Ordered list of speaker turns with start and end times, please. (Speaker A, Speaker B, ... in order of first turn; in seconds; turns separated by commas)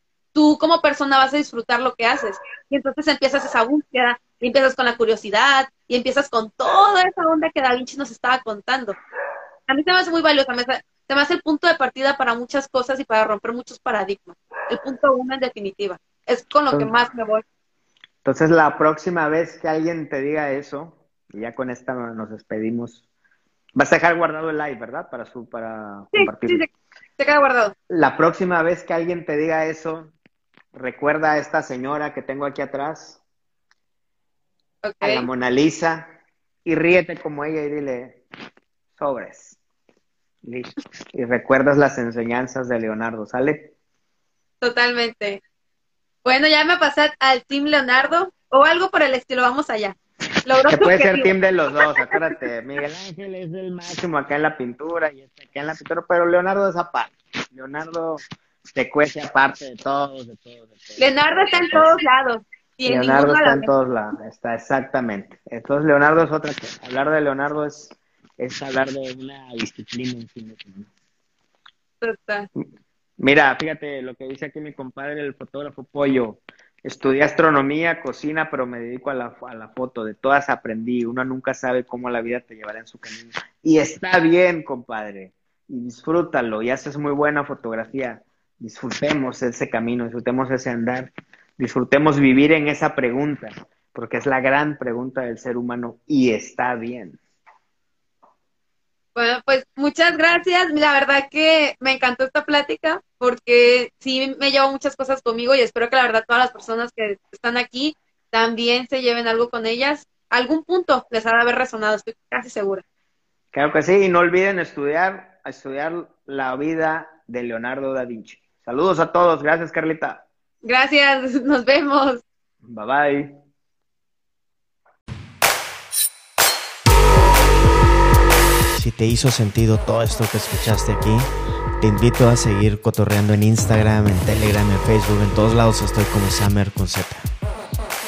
Speaker A: 0.3-8.9, Speaker A: 9.7-17.4, Speaker B: 18.2-23.0, Speaker B: 23.7-26.6, Speaker A: 26.1-27.7, Speaker B: 27.9-30.1, Speaker B: 30.7-33.2, Speaker A: 34.8-35.3, Speaker B: 35.0-36.1, Speaker B: 36.6-38.2, Speaker B: 39.0-39.6, Speaker B: 40.4-43.7, Speaker A: 44.6-45.4, Speaker A: 46.2-51.3, Speaker B: 50.7-58.2, Speaker B: 58.7-61.9, Speaker A: 61.0-63.7, Speaker B: 62.9-70.9, Speaker A: 72.0-72.5, Speaker B: 73.2-97.2, Speaker A: 99.1-112.8, Speaker B: 113.5-120.2, Speaker A: 120.6-122.2, Speaker B: 122.6-123.3, Speaker C: 128.7-131.3, Speaker C: 131.8-137.3